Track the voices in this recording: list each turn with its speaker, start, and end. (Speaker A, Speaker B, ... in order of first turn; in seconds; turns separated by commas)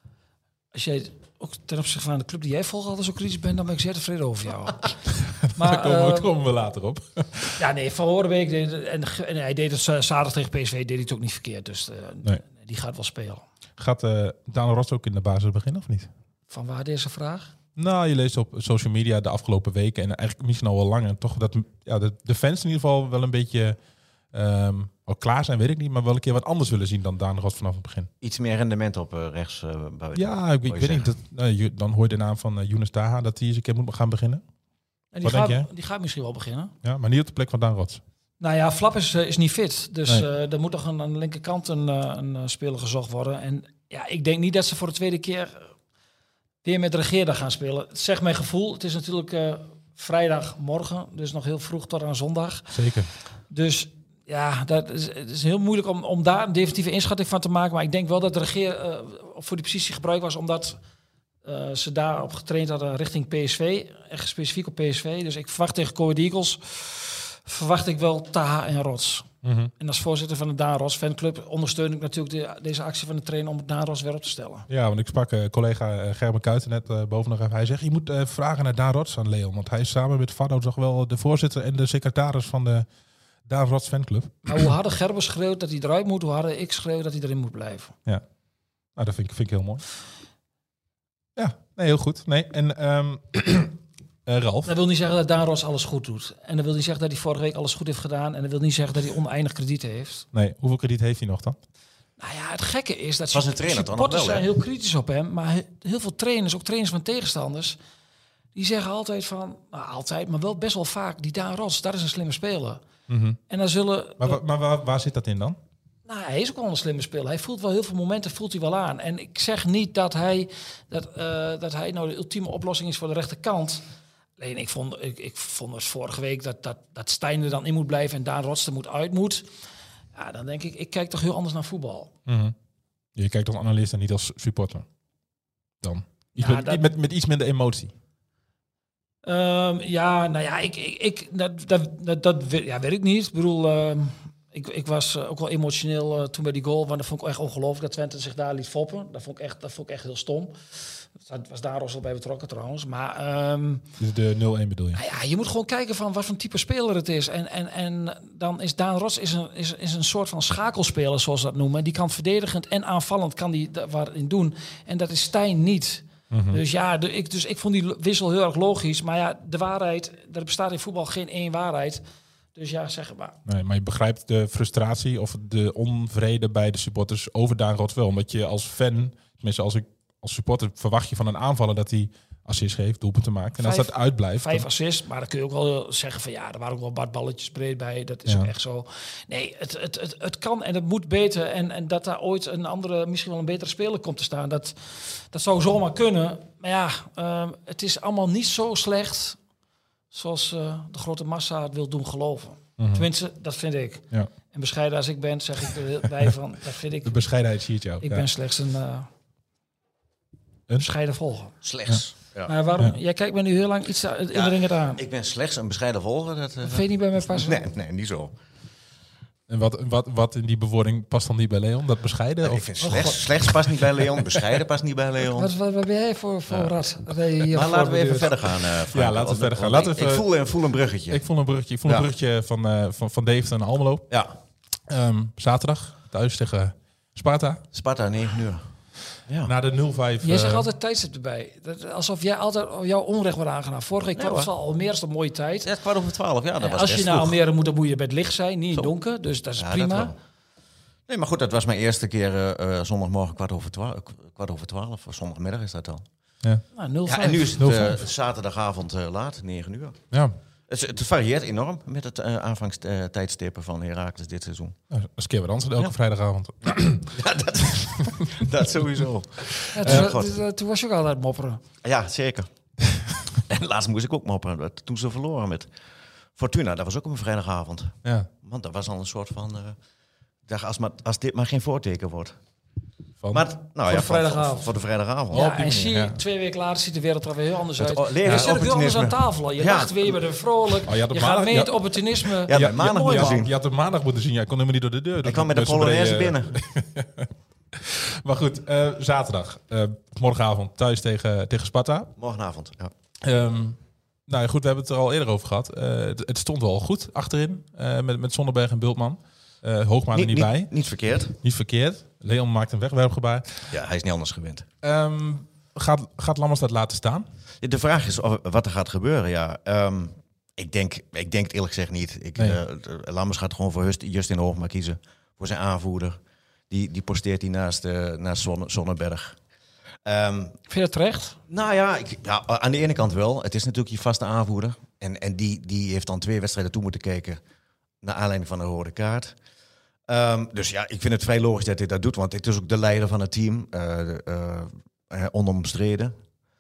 Speaker A: 0.7-5.0, Speaker B: 5.4-7.6, Speaker A: 5.5-6.3, Speaker A: 7.6-13.4, Speaker B: 13.8-16.1, Speaker A: 16.5-17.5, Speaker B: 17.8-23.8, Speaker B: 24.3-28.1, Speaker C: 28.2-31.1, Speaker B: 30.1-34.4, Speaker A: 35.1-36.7, Speaker B: 35.2-35.7, Speaker B: 36.8-38.0, Speaker A: 38.4-45.7, Speaker A: 46.6-52.7, Speaker B: 52.7-53.1, Speaker A: 53.5-60.8, Speaker A: 61.4-69.3, Speaker B: 69.4-69.7, Speaker A: 69.8-74.7, Speaker B: 74.7-82.9, Speaker B: 83.5-84.7, Speaker A: 84.5-87.9, Speaker B: 89.0-89.8, Speaker B: 91.4-94.7, Speaker A: 94.7-100.3, Speaker B: 100.3-101.6, Speaker A: 102.2-107.8, Speaker C: 103.3-104.5, Speaker A: 108.5-112.8, Speaker B: 113.1-113.4, Speaker A: 113.5-114.4, Speaker B: 114.2-115.6, Speaker A: 116.1-123.8, Speaker A: 124.4-129.5, Speaker A: 130.2-132.1, Speaker B: 132.3-132.6, Speaker B: 133.2-134.8, Speaker B: 135.8-137.9, Speaker A: 136.4-136.8, Speaker A: 139.2-153.8, Speaker B: 154.0-155.0, Speaker A: 154.9-172.0, Speaker B: 166.3-166.6, Speaker A: 172.6-173.4, Speaker B: 173.5-184.7, Speaker A: 183.6-199.4, Speaker A: 200.1-207.2, Speaker B: 202.8-203.1, Speaker B: 207.1-208.3, Speaker A: 208.0-209.1, Speaker A: 210.8-211.5, Speaker C: 211.6-212.5, Speaker A: 212.5-215.0, Speaker C: 214.3-218.3, Speaker A: 216.6-217.6, Speaker B: 219.5-222.7, Speaker C: 222.4-225.5, Speaker A: 222.8-223.2, Speaker A: 225.3-228.3, Speaker C: 226.5-226.7, Speaker C: 227.5-231.2, Speaker B: 228.9-230.3, Speaker B: 231.1-234.1, Speaker B: 234.9-237.6, Speaker C: 237.7-238.7, Speaker C: 239.3-239.5, Speaker B: 239.4-240.7, Speaker A: 240.2-245.7, Speaker C: 244.2-244.5, Speaker C: 245.6-247.4, Speaker A: 246.6-250.1, Speaker C: 249.6-250.2, Speaker C: 251.1-256.1, Speaker A: 256.7-257.6, Speaker C: 257.1-260.0, Speaker B: 257.6-258.0, Speaker C: 260.7-264.8, Speaker B: 264.9-267.1, Speaker C: 266.6-270.4, Speaker B: 268.0-268.3, Speaker B: 269.6-270.1, Speaker A: 269.7-271.6, Speaker C: 271.8-272.5, Speaker C: 273.3-275.7, Speaker C: 276.4-279.8, Speaker B: 278.0-278.3, Speaker C: 280.5-282.4, Speaker B: 283.2-283.5, Speaker C: 283.3-285.5, Speaker A: 283.9-284.7, Speaker A: 285.3-293.4, Speaker B: 285.3-286.2, Speaker C: 287.8-290.2, Speaker B: 290.9-292.0, Speaker C: 292.5-293.5, Speaker B: 292.5-302.1, Speaker C: 295.2-296.6, Speaker C: 302.2-302.9, Speaker B: 303.2-303.8, Speaker B: 304.3-310.7, Speaker C: 310.1-311.4, Speaker B: 311.3-313.7, Speaker C: 313.7-314.7, Speaker B: 314.8-317.3, Speaker C: 317.6-326.2, Speaker C: 326.7-329.4, Speaker C: 330.1-330.6, Speaker A: 330.7-331.4, Speaker C: 331.5-337.4, Speaker C: 338.0-339.4, Speaker C: 340.1-346.1